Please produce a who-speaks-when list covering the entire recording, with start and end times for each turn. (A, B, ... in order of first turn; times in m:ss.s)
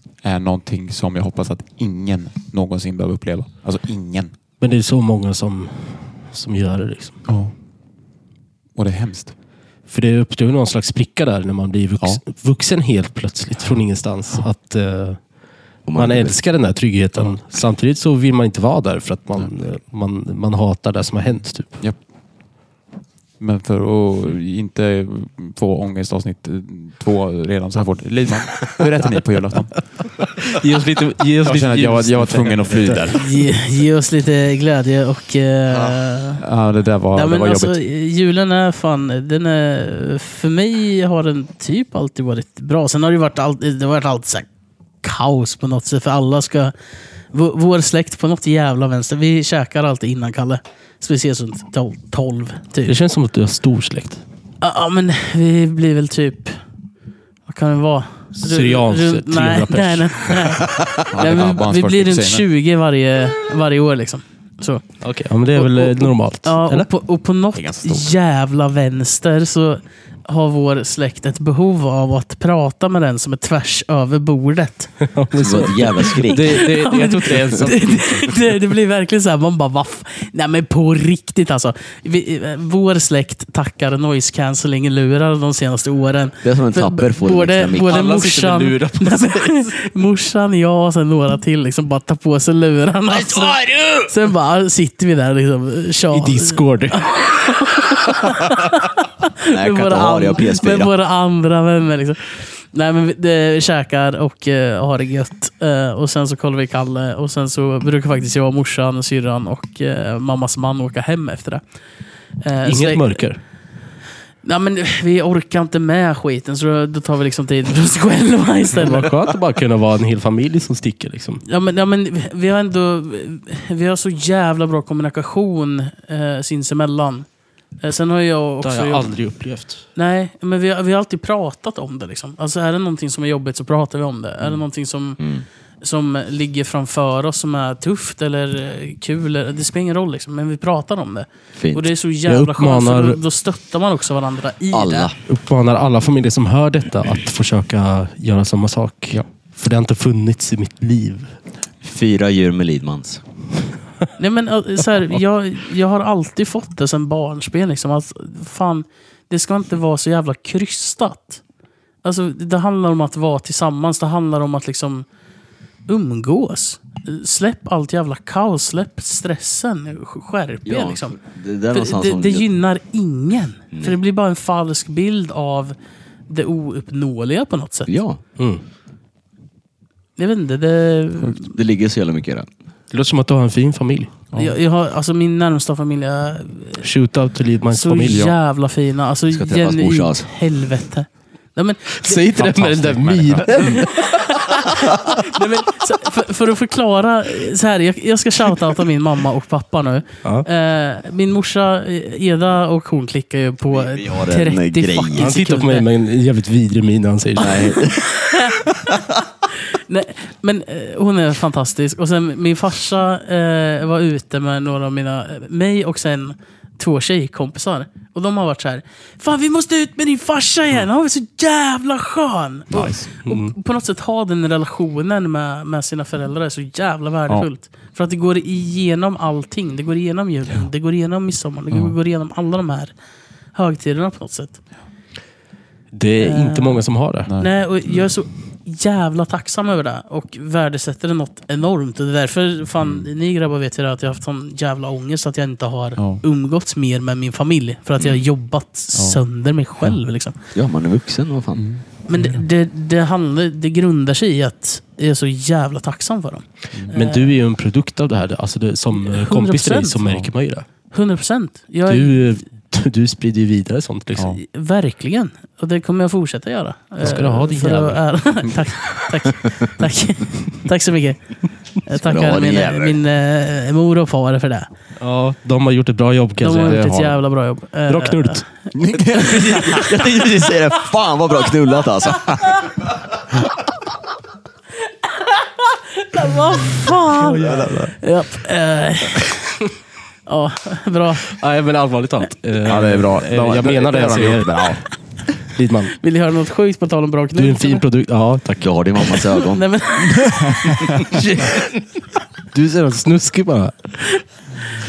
0:00.2-0:04.3 A
0:04.6-0:07.2 B
0:07.3-0:07.5 A
0:08.8-0:09.3 A
0:09.9-0:15.2 B
0:15.8-0:16.4 C
0:16.0-0:21.8 B
0:23.4-0:29.8 A
0:30.4-0:33.2 B
0:31.4-0:33.2 A
0:33.1-0:36.4 D
0:35.7-0:36.0 C
0:36.4-0:37.8 A
0:37.1-0:44.5 D
0:45.0-0:46.7 D
0:47.3-0:53.0 D
0:52.8-0:54.2 B
0:54.6-0:56.6 D
0:57.4-1:04.9 D
0:58.4-1:00.5 B
1:01.1-1:02.4 A
1:05.0-1:06.9 B
1:05.5-1:15.1 D
1:07.5-1:08.1 A
1:15.1-1:18.5 B
1:15.4-1:16.6 C
1:16.4-1:51.6 D
1:26.4-1:28.0 C
1:27.9-1:29.9 B
1:33.1-1:33.8 B
1:36.1-1:37.1 B
1:39.4-1:40.9 C
1:52.4-1:53.2 D
1:52.6-1:53.4 B
1:54.4-1:59.2 D
1:58.7-2:01.4 B
2:01.4-2:07.2 D
2:07.8-2:09.2 D
2:08.6-2:09.8 B
2:10.0-2:15.2 D
2:15.2-2:15.4 C
2:15.8-2:25.1 D
2:21.6-2:21.9 C
2:22.2-2:23.2 B
2:24.7-2:25.1 C
2:25.2-2:31.3 B
2:31.8-2:33.2 C
2:34.2-2:41.4 D
2:42.0-2:45.0 D
2:45.9-2:51.2 D
2:50.6-2:52.5 C
2:51.7-2:55.8 D
2:53.7-2:54.0 C
2:56.3-2:57.9 D
2:57.9-2:58.2 C
3:00.2-3:01.5 D
3:01.4-3:02.5 C
3:02.9-3:04.2 B
3:04.3-3:06.9 D
3:06.8-3:08.2 B
3:07.7-3:12.2 D
3:08.0-3:08.4 A
3:09.3-3:10.3 C
3:12.0-3:14.1 B
3:12.3-3:13.8 A
3:13.5-3:25.9 D
3:23.7-3:25.3 C
3:25.1-3:27.7 B
3:27.4-3:28.1 C
3:28.2-3:28.6 D
3:29.7-3:52.9 D
3:42.7-3:43.1 A
3:43.2-3:43.5 B
3:53.5-3:54.6 D
3:55.9-3:57.3 B
3:56.2-3:56.8 D
3:57.4-4:10.4 D
4:02.8-4:03.1 A
4:06.0-4:06.2 A
4:08.9-4:09.2 A
4:10.5-4:11.6 C
4:11.6-4:11.8 A
4:12.1-4:17.4 D
4:16.9-4:20.7 B
4:18.9-4:20.0 D
4:20.9-4:22.2 D
4:21.8-4:24.3 B
4:24.2-4:24.4 A
4:24.4-4:34.7 D
4:27.0-4:28.0 B
4:32.0-4:33.0 C
4:35.0-4:36.8 B
4:36.4-4:38.4 D
4:36.6-4:37.2 A
4:37.9-4:38.4 B
4:38.7-4:42.5 C
4:39.4-4:40.5 D
4:45.2-4:49.6 D
4:47.2-4:47.9 B
4:50.2-4:51.3 D
4:51.2-4:54.8 B
4:52.6-4:54.8 A
4:55.5-4:55.9 B
4:56.0-4:57.8 D
4:57.4-4:58.7 B
4:58.6-4:59.7 C
4:59.4-5:00.7 D
5:00.2-5:00.8 A
5:01.0-5:01.7 B
5:02.5-5:04.2 B